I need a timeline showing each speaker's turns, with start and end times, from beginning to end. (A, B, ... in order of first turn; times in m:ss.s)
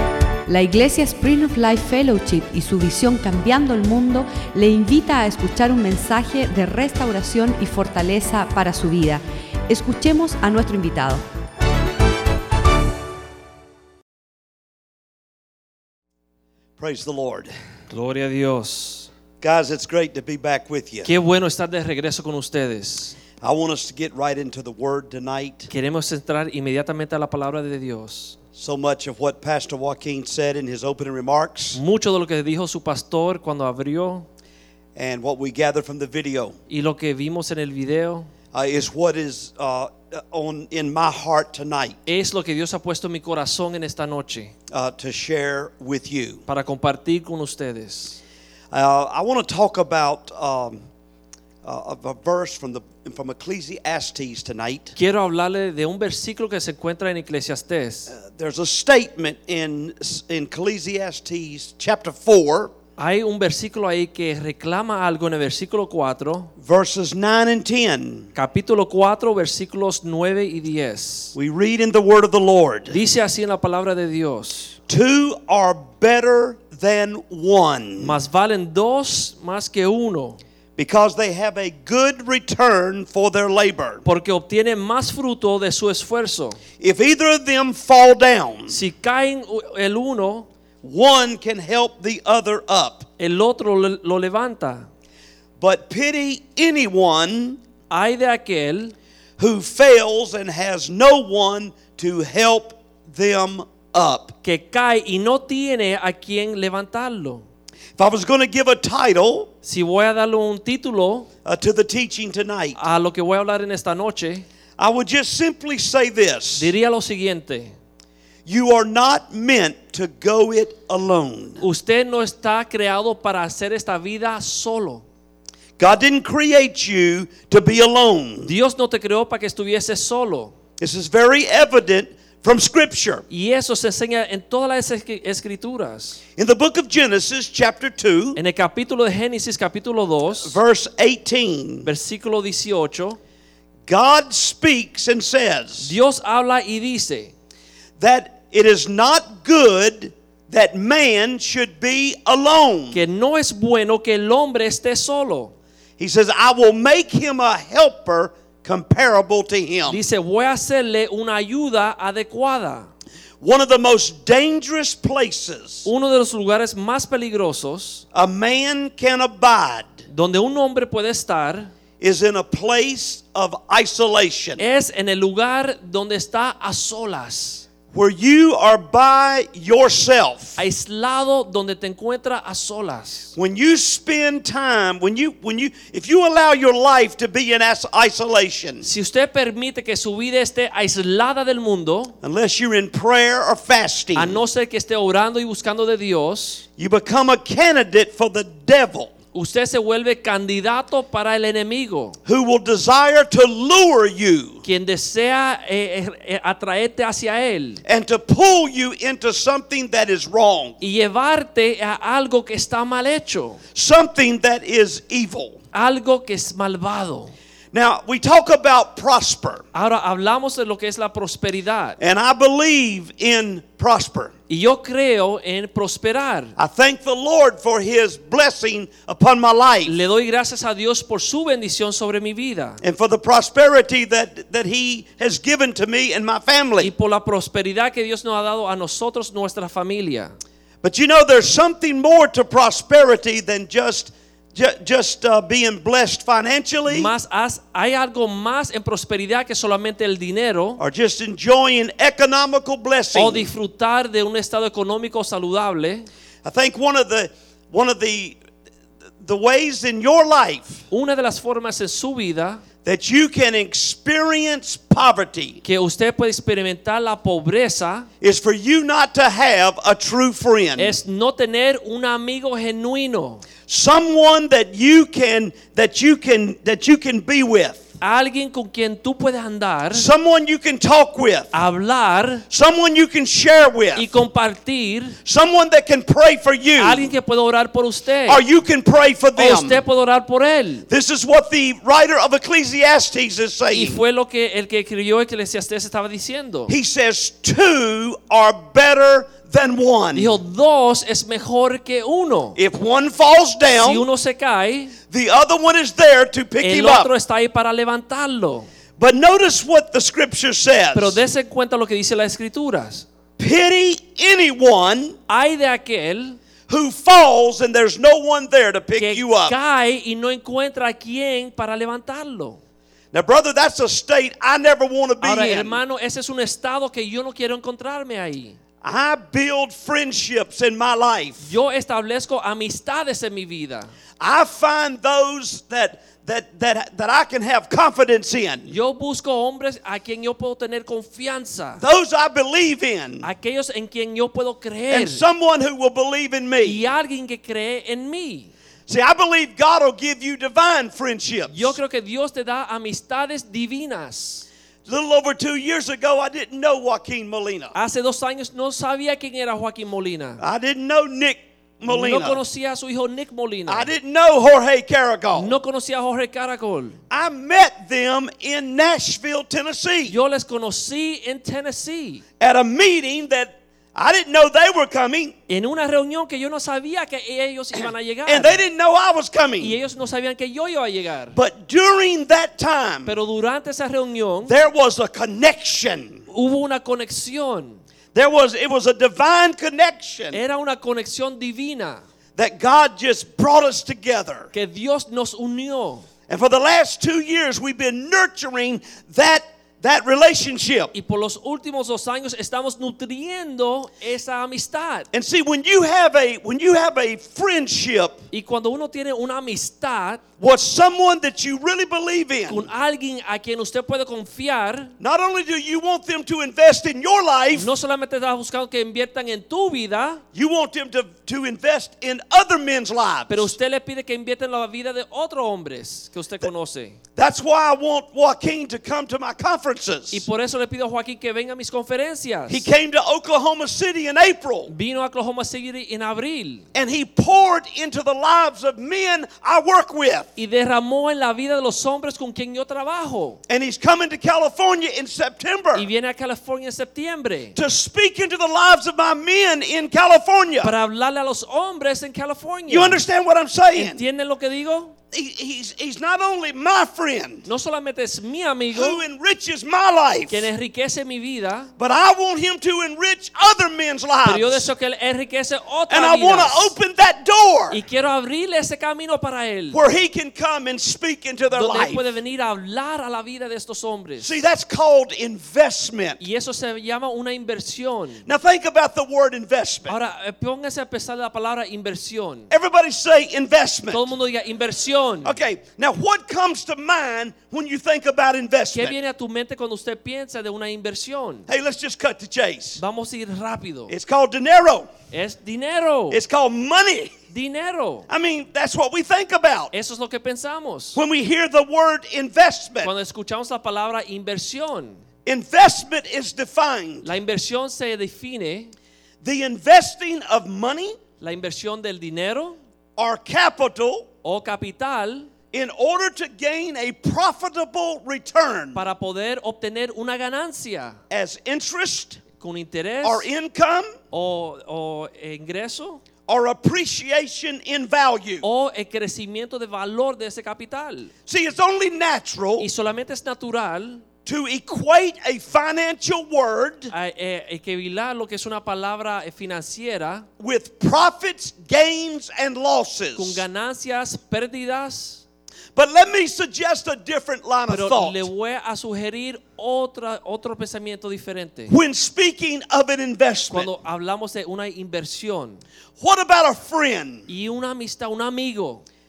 0:00.5-0:11.2 A
0:16.8-0:17.5 B
0:17.9-0:19.1 C
0:19.4-0:21.1 B
0:21.0-0:23.2 C
0:23.4-0:25.7 B
0:25.7-0:28.4 C
0:28.6-0:31.8 B
0:31.7-0:34.3 C
0:34.9-0:36.6 B
0:36.7-0:38.3 C
0:38.5-0:42.0 B
0:42.0-0:44.5 C
0:44.7-0:46.4 B
0:46.5-0:48.2 C
0:48.7-0:50.8 B
0:51.6-0:55.0 B
0:55.0-0:58.1 C
0:58.1-1:02.7 B
1:03.0-1:06.5 C
1:06.6-1:08.3 B
1:08.3-1:11.3 C
1:11.3-1:13.0 B
1:12.9-1:14.8 C
1:14.9-1:18.2 B
1:18.0-1:20.4 C
1:20.8-1:24.0 B
1:24.0-1:26.6 C
1:26.8-1:28.8 B
1:28.7-1:30.5 C
1:30.8-1:33.1 B
1:33.2-1:34.8 C
1:35.6-1:37.6 B
1:37.9-1:38.9 C
1:39.4-1:44.4 B
1:44.4-1:47.4 C
1:48.0-1:49.5 B
1:49.6-1:51.3 C
1:51.4-1:52.8 B
1:52.8-1:54.4 C
1:54.8-1:56.7 B
1:56.6-1:57.7 C
1:58.4-2:01.6 B
2:01.6-2:05.0 C
2:05.8-2:08.5 B
2:08.4-2:10.5 C
2:10.8-2:13.2 B
2:13.3-2:16.2 C
2:16.4-2:18.4 B
2:18.4-2:20.6 C
2:20.4-2:21.9 B
2:21.8-2:23.2 C
2:23.8-2:26.0 B
2:25.8-2:27.3 C
2:28.0-2:33.0 B
2:32.9-2:35.5 C
2:36.0-2:40.0 B
2:39.9-2:42.9 C
2:43.4-2:45.9 B
2:45.8-2:48.0 C
2:48.1-2:50.0 B
2:50.1-2:51.7 C
2:52.0-2:54.6 B
2:54.6-2:57.6 C
2:57.9-3:00.6 B
3:00.6-3:03.3 C
3:03.4-3:08.9 B
3:08.8-3:12.1 C
3:12.2-3:14.4 B
3:14.1-3:16.6 C
3:16.8-3:19.1 B
3:19.3-3:22.2 C
3:22.2-3:24.6 B
3:24.6-3:27.8 C
3:27.8-3:30.8 B
3:30.8-3:33.6 C
3:33.7-3:35.6 B
3:35.7-3:37.3 C
3:37.7-3:39.7 B
3:39.7-3:42.0 C
3:42.0-3:44.3 B
3:44.5-3:46.5 C
3:46.6-3:49.9 B
3:49.8-3:52.8 C
3:52.8-3:56.9 B
3:56.8-4:00.3 C
4:00.8-4:07.1 B
4:06.9-4:10.8 C
4:10.8-4:13.5 B
4:13.1-4:16.1 C
4:16.4-4:18.4 B
4:19.2-4:20.8 B
4:20.9-4:22.6 C
4:22.8-4:25.6 B
4:25.6-4:28.1 C
4:28.2-4:31.0 B
4:30.8-4:33.4 C
4:33.7-4:37.9 B
4:38.0-4:40.1 C
4:39.9-4:41.5 B
4:41.5-4:42.4 C
4:42.5-4:44.1 B
4:44.0-4:45.2 C
4:45.2-4:47.1 B
4:46.8-4:48.4 C
4:48.2-4:49.8 B
4:49.4-4:50.9 C
4:50.9-4:54.0 B
4:53.7-4:56.7 C
4:56.7-5:00.4 B
5:00.1-5:02.6 C
5:02.6-5:04.0 B
5:03.8-5:04.9 C
5:05.1-5:07.1 B
5:06.6-5:08.7 C
5:09.0-5:11.2 B
5:10.9-5:13.0 C
5:13.4-5:15.2 B
5:15.3-5:16.4 C
5:16.7-5:19.5 B
5:19.0-5:22.6 C
5:23.1-5:25.8 B
5:25.2-5:28.6 C
5:28.8-5:31.5 B
5:31.4-5:33.9 C
5:34.2-5:38.7 B
5:38.7-5:41.8 C
5:41.8-5:43.3 B
5:43.2-5:45.2 C
5:44.9-5:46.8 B
5:46.6-5:48.5 C
5:48.9-5:51.8 B
5:51.5-5:54.5 C
5:54.8-5:57.7 B
5:57.7-6:00.4 C
6:00.4-6:02.4 B
6:01.8-6:03.9 C
6:03.7-6:05.6 B
6:05.3-6:07.0 C
6:07.1-6:10.2 B
6:10.1-6:12.2 C
6:12.4-6:15.3 B
6:15.5-6:18.6 C
6:17.7-6:19.8 B
6:19.6-6:21.4 C
6:21.3-6:23.2 B
6:23.0-6:24.5 C
6:24.4-6:26.3 B
6:26.3-6:27.8 C
6:28.1-6:30.4 B
6:30.3-6:32.0 C
6:32.4-6:34.5 B
6:34.5-6:36.1 C
6:36.3-6:40.9 B
6:40.9-6:45.1 C
6:45.1-6:48.2 B
6:48.3-6:50.2 C
6:50.4-6:52.7 B
6:52.5-6:54.9 C
6:55.0-6:57.7 B
6:57.5-7:00.2 C
7:00.3-7:03.5 B
7:03.3-7:07.0 C
7:07.2-7:10.3 B
7:10.1-7:12.6 C
7:12.5-7:14.7 B
7:14.7-7:16.6 C
7:16.7-7:20.3 B
7:20.4-7:23.4 C
7:23.5-7:25.9 B
7:25.7-7:27.6 C
7:27.5-7:30.7 B
7:30.6-7:33.0 C
7:32.7-7:34.0 B
7:33.7-7:34.9 C
7:35.1-7:37.5 B
7:37.4-7:39.0 C
7:38.7-7:40.5 B
7:40.3-7:41.7 C
7:41.8-7:44.7 B
7:44.2-7:46.7 C
7:45.9-7:47.8 B
7:47.7-7:49.8 C
7:49.7-7:52.1 B
7:51.5-7:54.3 C
7:54.2-7:56.2 B
7:56.2-7:58.2 C
7:58.2-8:00.0 B
7:59.9-8:02.5 C
8:02.5-8:04.1 B
8:03.9-8:05.4 C
8:05.2-8:09.0 B
8:08.7-8:11.5 C
8:11.5-8:12.8 B
8:12.8-8:13.9 C
8:13.9-8:14.9 B
8:15.1-8:16.2 C
8:16.1-8:17.1 B
8:17.3-8:18.1 C
8:18.1-8:19.7 B
8:19.7-8:21.0 C
8:20.9-8:22.9 B
8:22.8-8:25.0 C
8:25.2-8:27.1 B
8:27.0-8:28.7 C
8:29.2-8:31.0 B
8:31.2-8:32.6 C
8:33.0-8:34.1 B
8:34.2-8:35.3 C
8:35.5-8:38.8 B
8:38.7-8:41.0 C
8:41.1-8:42.2 B
8:42.4-8:43.2 C
8:43.0-8:44.0 B
8:44.1-8:46.0 C
8:46.3-8:48.4 B
8:48.4-8:51.1 C
8:51.3-8:52.7 B
8:52.6-8:54.0 C
8:54.2-8:56.9 B
8:56.9-9:00.3 C
9:00.4-9:03.4 B
9:03.1-9:05.2 C
9:05.7-9:08.3 B
9:07.7-9:11.7 C
9:11.7-9:13.7 B
9:13.5-9:15.6 C
9:16.0-9:17.3 B
9:17.3-9:18.8 C